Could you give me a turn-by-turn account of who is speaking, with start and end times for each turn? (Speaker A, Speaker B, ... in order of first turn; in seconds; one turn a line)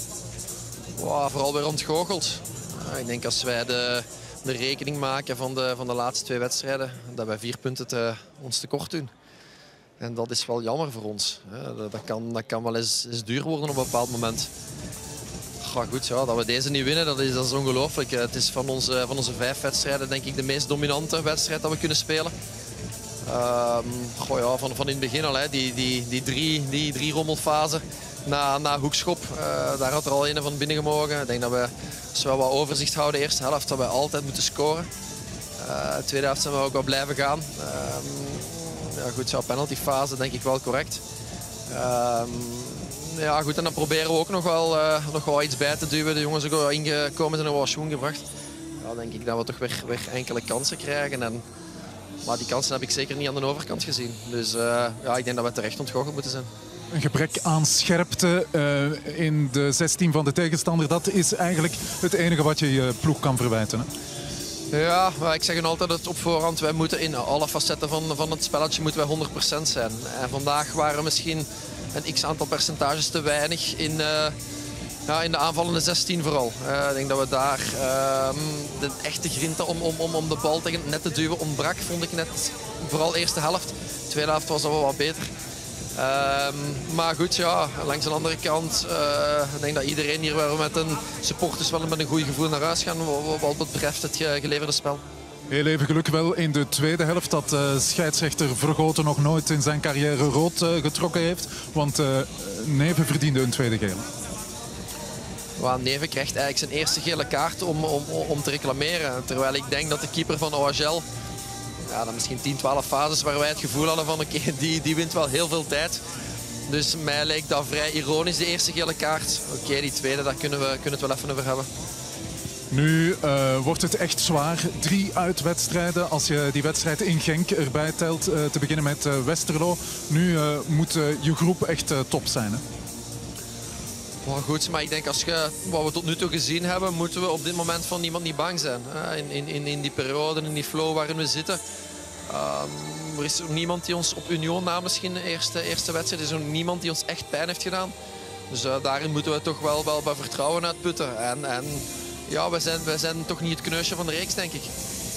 Speaker A: 1.0-9.1
Speaker A: 10.0-14.5
Speaker A: 15.6-22.3
Speaker A: 23.3-34.9
Speaker A: 35.6-41.0
Speaker A: 41.7-48.2
Speaker A: 48.8-51.4
Speaker A: 52.2-56.5
Speaker B: 56.9-63.9
Speaker A: 64.7-74.3
Speaker A: 75.1-85.3
Speaker A: 86.0-95.0
Speaker B: 95.5-104.0
Speaker A: 105.6-111.0
Speaker A: 111.9-116.0
Speaker A: 116.7-121.7
Speaker B: 122.7-132.6
Speaker A: 134.2-141.6
Speaker A: 142.3-147.9
Speaker A: 148.5-154.7